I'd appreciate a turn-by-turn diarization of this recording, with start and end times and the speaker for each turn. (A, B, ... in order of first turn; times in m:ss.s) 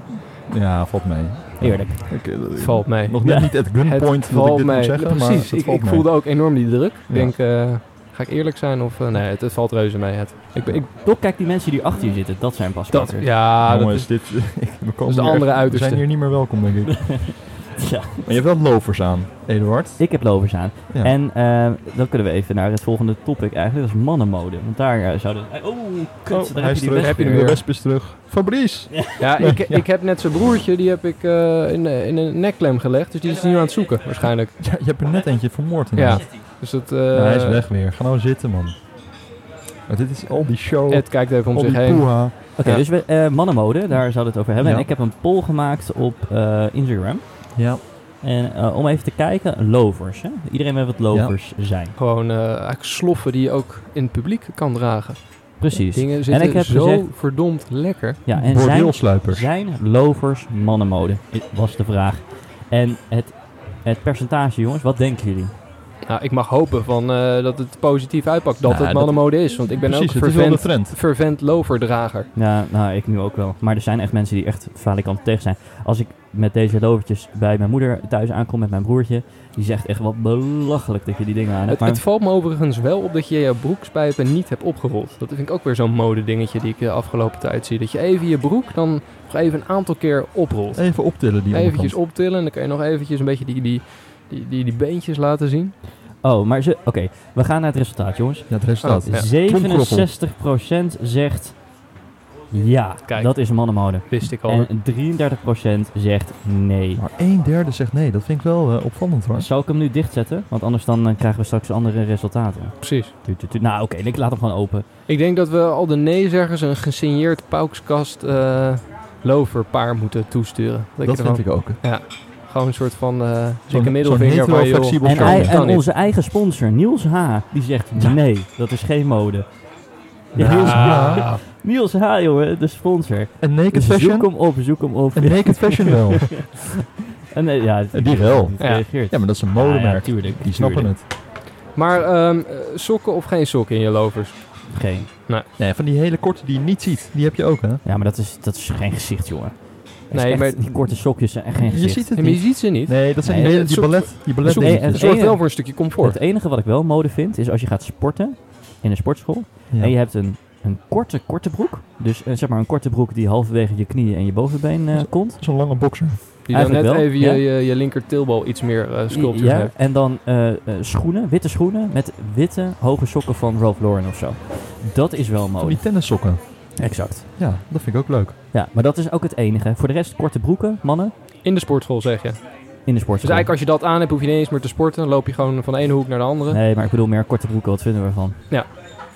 0:00.3-0:06.3 A
0:01.6-0:02.3 B
0:02.6-0:10.9 C
0:03.2-0:03.5 B
0:07.1-0:07.4 A
0:10.7-0:13.3 B
0:12.9-0:16.1 C
0:13.6-0:17.2 A
0:16.9-0:18.3 B
0:18.2-0:21.1 A
0:20.0-0:27.5 B
0:26.3-0:29.9 A
0:26.9-0:27.6 C
0:28.9-0:29.2 B
0:29.2-0:34.6 C
0:34.6-0:38.8 A
0:36.0-0:37.7 C
0:39.9-0:42.4 A
0:40.9-0:42.9 C
0:42.6-0:52.0 B
0:44.6-0:44.9 A
0:47.6-0:47.8 A
0:51.1-0:51.4 A
0:52.0-0:58.2 C
0:55.6-0:57.1 B
0:58.3-1:05.5 B
0:58.3-0:59.5 A
1:06.0-1:12.3 C
1:08.6-1:11.0 A
1:12.3-1:22.0 B
1:21.7-1:35.8 C
1:30.7-1:32.0 A
1:36.2-1:41.7 B
1:38.5-1:40.1 A
1:38.8-1:39.3 C
1:42.5-1:47.0 B
1:43.1-1:44.7 C
1:47.0-1:49.5 A
1:49.4-1:54.9 B
1:52.8-1:53.1 C
1:55.1-2:05.9 C
2:01.0-2:01.8 A
2:03.7-2:05.6 A
2:05.0-2:09.7 B
2:10.3-2:16.1 B
2:10.4-2:11.3 A
2:10.5-2:11.4 C
2:13.4-2:16.4 A
2:17.3-2:20.9 B
2:17.9-2:21.1 A
2:18.6-2:18.9 C
2:21.7-2:25.5 C
2:24.7-2:25.1 B
2:25.6-2:27.8 A
2:27.8-2:32.5 B
2:30.1-2:30.9 C
2:31.6-2:35.3 A
2:32.2-2:36.2 C
2:33.2-2:45.9 B
2:44.9-2:46.2 A
2:46.5-2:49.7 C
2:46.5-2:47.5 B
2:49.1-2:57.3 B
2:55.6-2:58.4 A
2:58.5-3:01.1 B
3:01.4-3:06.6 C
3:02.8-3:03.5 B
3:06.5-3:08.4 B